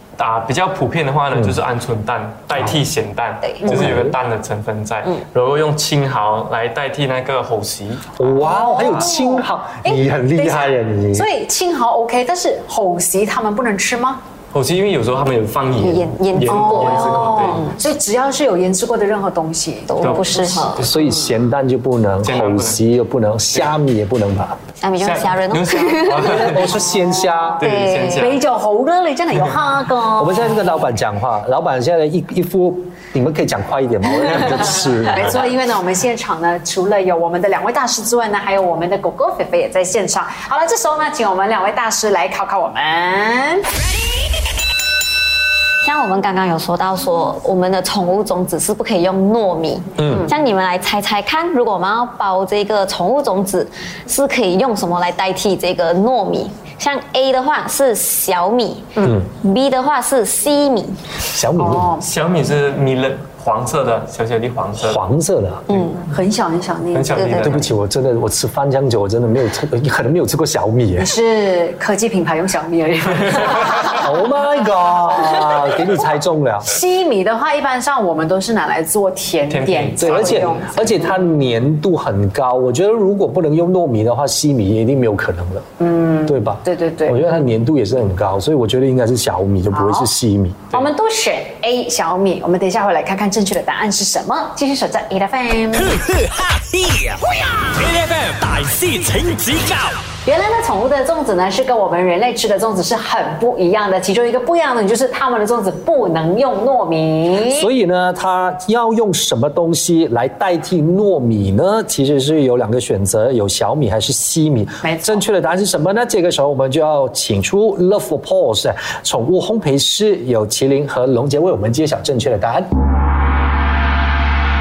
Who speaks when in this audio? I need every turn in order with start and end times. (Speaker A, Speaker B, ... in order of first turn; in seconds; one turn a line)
Speaker A: 0.2-9.1
Speaker B: 3.4-3.7
Speaker C: 3.6-4.2
Speaker C: 8.2-11.3
Speaker D: 8.4-14.2
Speaker A: 14.5-17.6
Speaker B: 15.8-17.8
Speaker D: 16.4-20.8
Speaker B: 19.9-20.9
Speaker A: 20.0-21.1
Speaker C: 20.8-24.6
Speaker A: 22.2-22.9
Speaker B: 24.8-26.6
Speaker A: 25.0-26.8
Speaker C: 26.2-27.6
Speaker D: 27.1-27.5
Speaker B: 27.6-28.3
Speaker A: 27.6-28.4
Speaker D: 28.1-30.6
Speaker C: 30.1-35.5
Speaker D: 35.0-43.6
Speaker B: 45.8-61.0
Speaker C: 50.0-50.3
Speaker D: 59.0-59.2
Speaker C: 61.2-61.9
Speaker D: 61.5-62.0
Speaker A: 62.0-65.0
Speaker C: 64.8-65.6
Speaker B: 65.7-66.0
Speaker D: 66.0-67.2
Speaker A: 66.9-67.7
Speaker B: 67.1-67.6
Speaker C: 67.4-71.1
Speaker D: 71.0-74.0
Speaker C: 73.8-76.7
Speaker D: 76.6-81.2
Speaker A: 79.5-80.9
Speaker C: 80.0-85.7
Speaker D: 85.8-87.2
Speaker C: 86.2-90.7
Speaker D: 89.7-90.1
Speaker D: 90.7-95.9
Speaker E: 95.7-100.0
Speaker D: 100.2-107.7
Speaker C: 107.4-122.7
Speaker D: 114.8-115.2